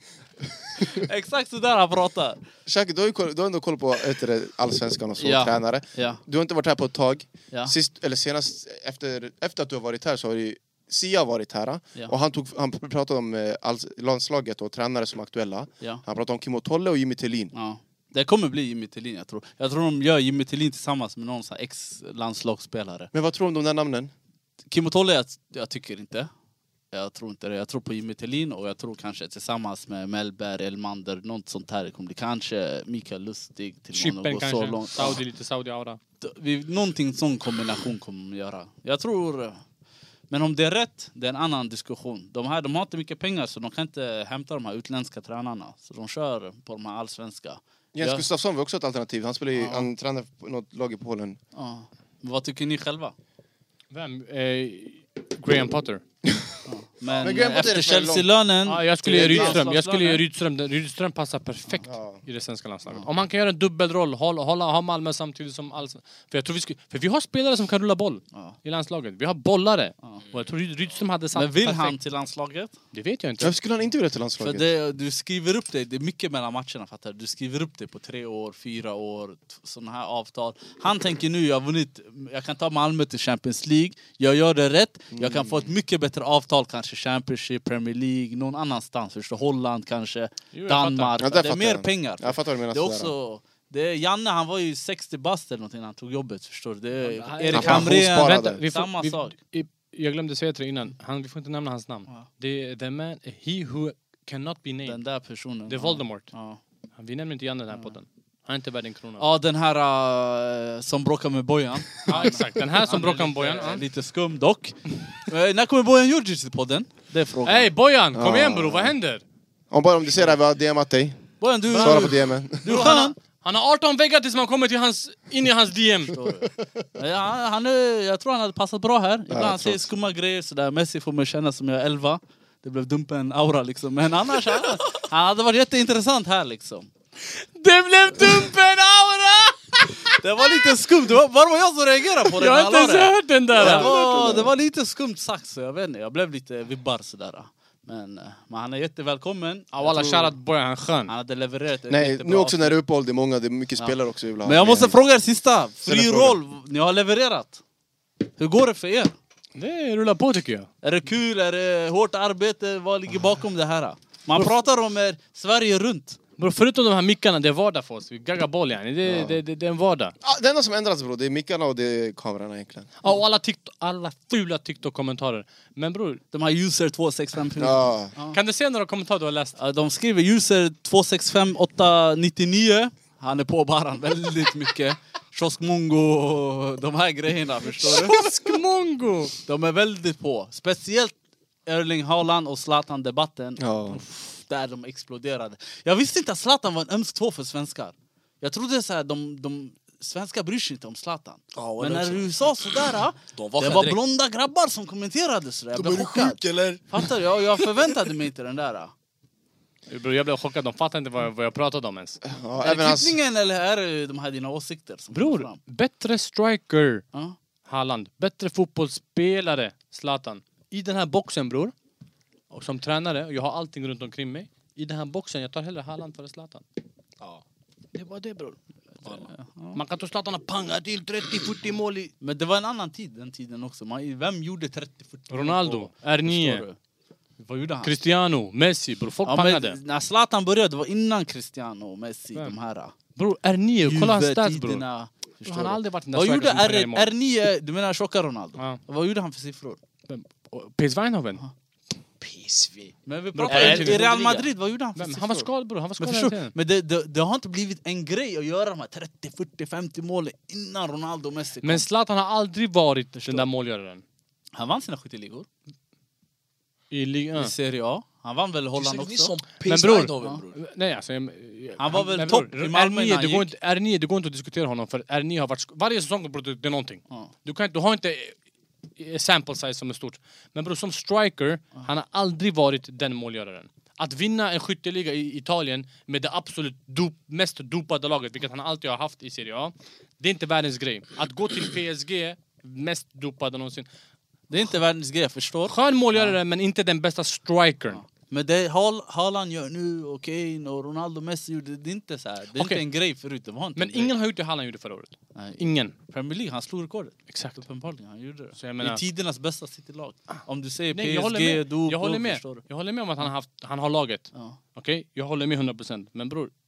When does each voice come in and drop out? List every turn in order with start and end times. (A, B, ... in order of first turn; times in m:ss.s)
0:00.8-0:02.4 A
0:02.7-0:17.5 B
0:05.2-0:06.2 A
0:17.5-0:23.1 A
0:23.1-0:24.1 B
0:24.7-0:26.3 A
0:26.9-0:35.2 A
0:33.9-0:36.0 C
0:36.2-0:39.6 A
0:40.3-0:48.3 A
0:48.0-0:51.4 B
0:49.5-0:49.9 A
0:51.6-0:53.2 A
0:53.9-0:56.0 C
0:56.2-0:56.6 B
0:56.7-1:00.2 A
0:57.2-0:58.3 B
0:58.7-1:12.0 C
0:59.1-0:59.6 B
1:01.8-1:02.2 B
1:11.4-1:12.7 A
1:12.9-1:13.5 C
1:13.4-1:14.7 B
1:14.4-1:39.4 A
1:25.1-1:25.7 B
1:30.5-1:31.2 C
1:31.2-1:33.1 B
1:37.0-1:45.0 C
1:37.5-1:38.6 B
1:44.9-1:46.6 A
1:45.7-1:46.3 C
1:47.0-1:49.2 C
1:49.2-1:57.7 A
1:52.1-1:53.8 C
1:57.4-1:59.2 C
1:58.1-1:59.0 B
1:59.7-2:02.8 B
2:01.4-2:03.1 A
2:01.7-2:02.1 C
2:02.6-2:06.1 C
2:06.1-2:16.9 A
2:09.3-2:09.9 B
2:17.3-2:20.1 C
2:20.1-2:30.3 A
2:22.4-2:23.9 C
2:23.6-2:24.5 B
2:29.7-2:31.1 C
2:31.1-2:32.8 A
2:31.9-2:35.0 B
2:33.8-2:37.6 A
2:35.9-2:36.4 C
2:36.0-2:36.2 B
2:38.4-2:39.1 A
2:39.6-2:40.7 C
2:40.8-2:46.2 A
2:46.4-2:50.1 C
2:49.0-2:49.4 B
2:50.2-2:52.9 B
2:53.0-2:56.2 C
2:56.3-2:58.4 A
2:57.6-2:58.1 B
2:58.3-2:59.6 C
2:59.6-3:08.2 A
3:07.8-3:09.4 C
3:09.5-3:11.1 A
3:11.7-3:28.9 A
3:13.6-3:14.0 B
3:21.6-3:22.3 D
3:23.4-3:24.0 D
3:25.8-3:27.6 D
3:29.9-3:32.2 C
3:32.2-3:33.2 B
3:32.6-3:35.6 A
3:35.1-3:37.0 C
3:37.7-3:41.7 C
3:42.5-3:46.6 C
3:48.0-3:52.1 C
3:49.0-3:49.8 A
3:52.2-3:56.8 A
3:55.3-3:56.6 C
3:57.4-3:58.0 A
3:57.8-3:59.8 C
3:59.3-4:02.9 A
4:03.2-4:04.8 C
4:03.8-4:09.8 A
4:05.4-4:07.1 C
4:10.1-4:11.4 C
4:12.2-4:13.0 D
4:13.1-4:21.9 A
4:13.4-4:14.4 C
4:13.5-4:14.4 D
4:15.0-4:16.5 C
4:21.6-4:24.0 C
4:23.2-4:23.5 A
4:24.6-4:25.5 A
4:26.9-4:27.5 C
4:27.4-4:29.4 A
4:28.8-4:30.6 D
4:29.6-4:38.4 C
4:31.8-4:33.5 A
4:39.0-4:53.9 C
4:54.5-4:56.4 A
4:55.7-4:58.0 C
4:57.9-5:04.1 A
5:02.6-5:02.8 C
5:03.8-5:05.9 C
5:05.4-5:12.6 A
5:07.3-5:07.6 C
5:08.6-5:09.0 C
5:10.9-5:16.5 C